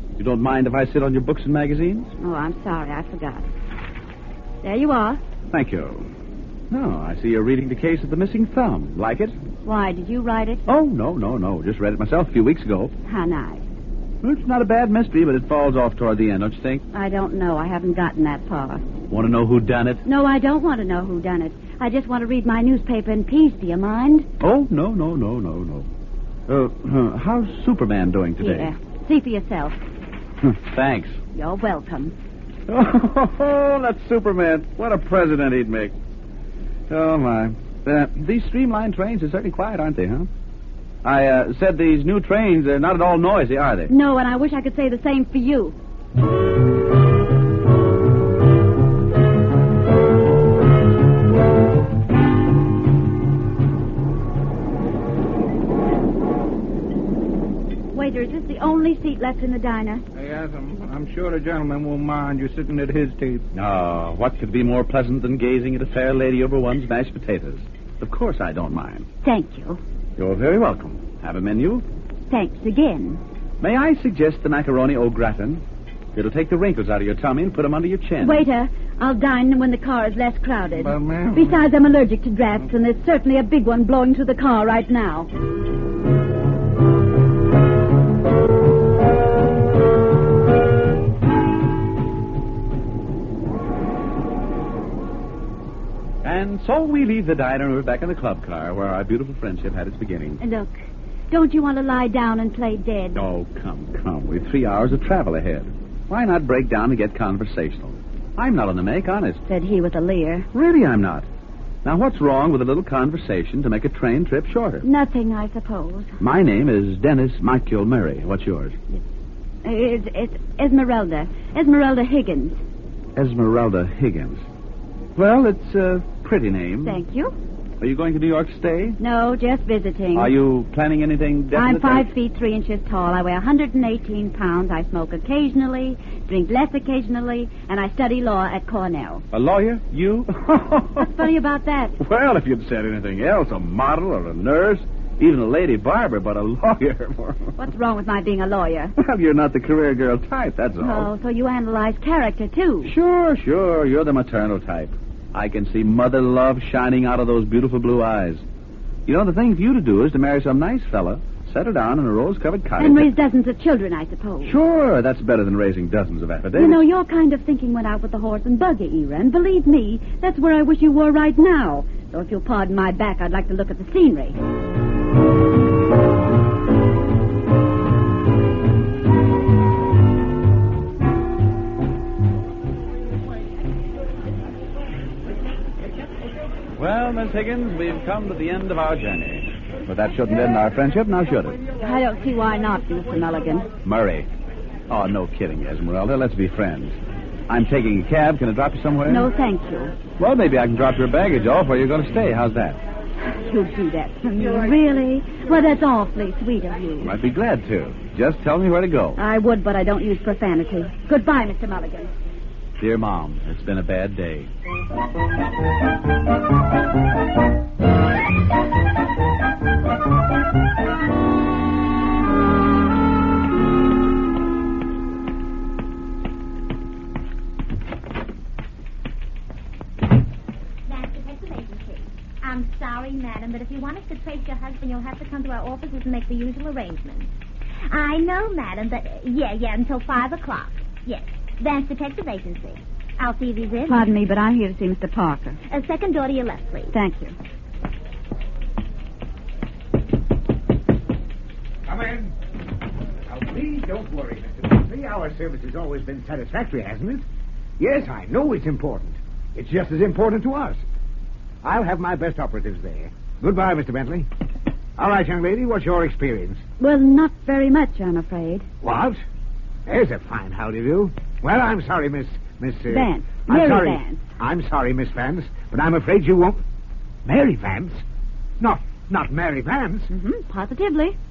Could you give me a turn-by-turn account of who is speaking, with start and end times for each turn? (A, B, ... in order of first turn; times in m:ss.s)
0:00.2-0:02.1 A
0:02.2-0:03.5 B
0:04.6-0:05.2 B
0:05.5-0:06.1 A
0:06.7-0:09.4 A
0:09.6-0:10.6 B
0:10.7-0:12.9 A
0:13.1-0:13.6 B
0:14.2-0:16.8 A
0:16.9-0:18.8 B
0:19.1-0:20.0 A
0:20.0-0:24.3 B
0:24.4-0:25.9 A
0:26.5-0:28.7 A
0:28.4-0:29.8 B
0:30.4-0:31.2 A
0:31.3-0:32.1 B
0:32.7-0:35.9 A
0:36.9-0:40.3 A
0:41.0-0:43.9 A
0:43.9-0:45.8 B
0:57.9-1:00.0 B
1:00.2-1:03.4 C
1:03.5-1:09.1 A
1:09.2-1:09.8 B
1:10.2-1:11.8 A
1:12.3-1:13.2 B
1:13.6-1:15.6 A
1:16.1-1:18.5 A
1:18.2-1:25.3 B
1:20.7-1:21.6 C
1:36.2-1:40.4 A
1:40.4-1:40.8 B
1:41.3-1:43.2 B
1:43.1-1:49.4 A
1:49.5-1:50.5 B
1:50.5-1:51.3 A
1:51.8-1:54.9 A
1:54.8-1:56.1 B
1:56.2-1:58.8 A
1:59.6-2:02.6 B
2:03.2-2:04.4 A
2:05.2-2:07.0 A
2:06.8-2:07.3 B
2:07.8-2:09.0 A
2:09.0-2:10.3 B
2:10.1-2:12.1 A
2:11.5-2:19.2 B
2:19.3-2:21.3 A
2:21.0-2:22.0 B
2:22.0-2:27.5 A
2:27.6-2:28.9 B
2:29.0-2:31.1 A
2:30.8-2:32.9 B
2:32.8-2:38.4 A
2:39.1-2:43.1 A
2:42.8-2:44.6 B
2:44.4-2:46.8 A
2:46.6-2:54.4 B
3:06.8-3:11.6 A
3:11.8-3:13.7 B
3:13.8-3:14.3 A
3:14.9-3:17.0 A
3:17.5-3:19.3 A
3:19.1-3:20.0 B
3:20.1-3:22.8 A
3:23.3-3:27.1 B
3:27.0-3:29.2 A
3:29.2-3:32.1 B
3:32.8-3:34.5 A
3:50.9-3:57.3 D
3:57.9-4:04.1 D
4:03.9-4:05.6 B
4:05.7-4:06.9 D
4:06.9-4:07.4 B
4:11.9-4:12.4 E
4:13.3-4:17.2 E
4:17.8-4:20.8 E
4:21.6-4:24.3 E
4:25.0-4:26.6 E
4:26.8-4:28.7 B
4:28.8-4:29.2 E
4:29.9-4:36.6 E
4:32.9-4:34.3 B
4:37.2-4:38.0 E
4:38.6-4:40.1 E
4:40.1-4:41.2 B